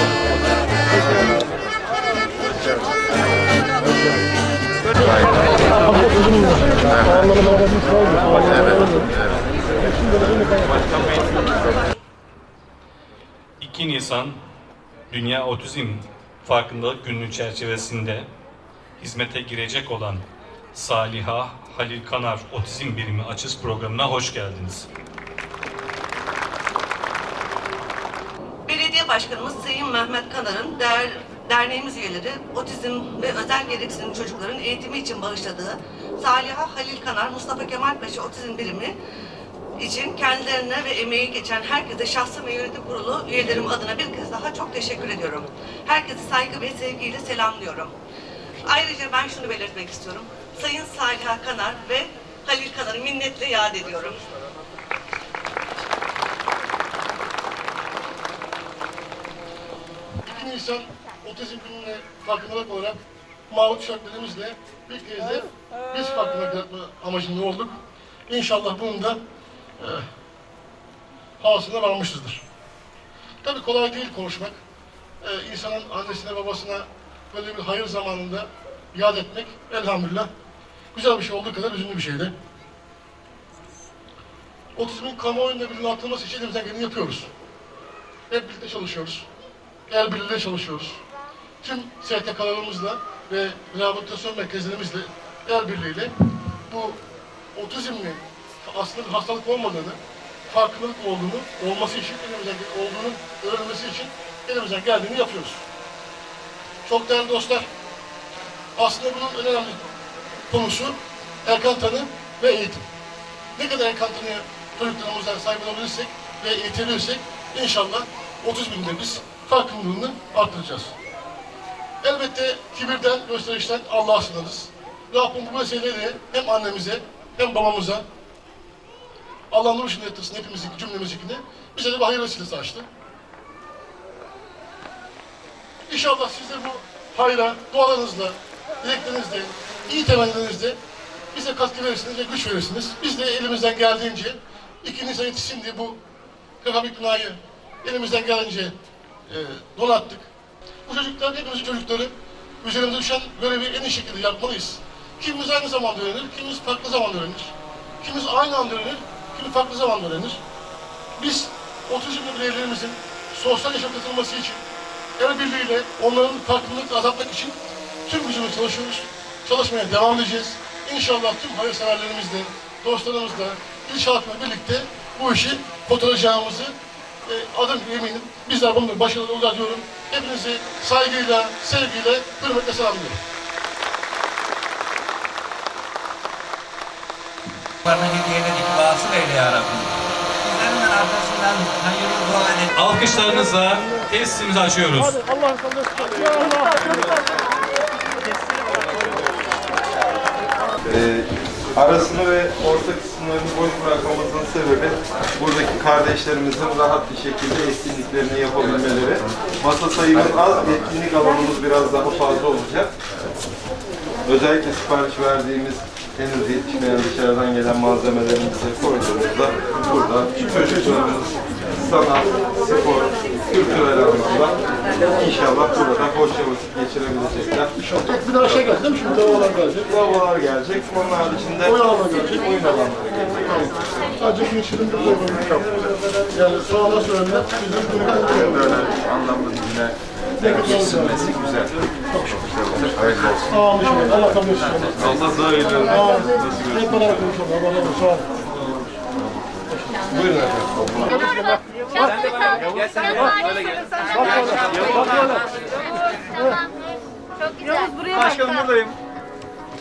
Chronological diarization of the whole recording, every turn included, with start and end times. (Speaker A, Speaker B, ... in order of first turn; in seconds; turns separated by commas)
Speaker A: 6.0-9.0, Speaker B: 13.6-14.4, Speaker B: 15.1-18.3, Speaker B: 19.0-20.2, Speaker B: 20.7-24.9, Speaker C: 28.7-39.0, Speaker C: 39.8-47.9, Speaker C: 48.6-54.2, Speaker A: 60.2-63.0, Speaker A: 63.5-69.2, Speaker A: 69.8-70.0, Speaker A: 71.4-72.4, Speaker A: 73.4-74.6, Speaker A: 75.2-80.3, Speaker A: 80.9-82.3, Speaker A: 84.7-87.3, Speaker A: 88.3-89.2, Speaker A: 89.9-91.0, Speaker A: 91.6-96.1, Speaker A: 96.7-97.0, Speaker A: 97.5-105.6, Speaker A: 106.8-107.7, Speaker A: 108.8-109.8, Speaker A: 110.5-112.8, Speaker A: 113.5-120.9, Speaker A: 122.0-128.0, Speaker A: 129.5-132.8, Speaker A: 135.9-140.8, Speaker A: 141.3-146.0, Speaker A: 146.6-148.7, Speaker A: 149.3-150.3, Speaker A: 150.8-160.4, Speaker A: 161.2-164.6, Speaker A: 165.2-176.7, Speaker A: 177.2-183.2, Speaker D: 187.8-189.9, Speaker D: 190.4-192.7, Speaker B: 192.7-195.1, Speaker A: 194.9-197.2, Speaker E: 200.8-212.9, Speaker E: 214.2-227.7, Speaker A: 227.8-229.9, Speaker E: 229.8-233.5, Speaker A: 231.6-232.7, Speaker A: 233.5-235.7, Speaker A: 236.3-238.7, Speaker E: 238.7-239.9, Speaker A: 240.4-241.4, Speaker E: 240.5-241.7, Speaker A: 242.1-242.5, Speaker E: 242.8-243.3, Speaker A: 243.5-245.2, Speaker E: 245.0-246.8, Speaker A: 245.8-248.3, Speaker E: 250.1-251.1, Speaker A: 251.1-253.3, Speaker A: 254.1-255.2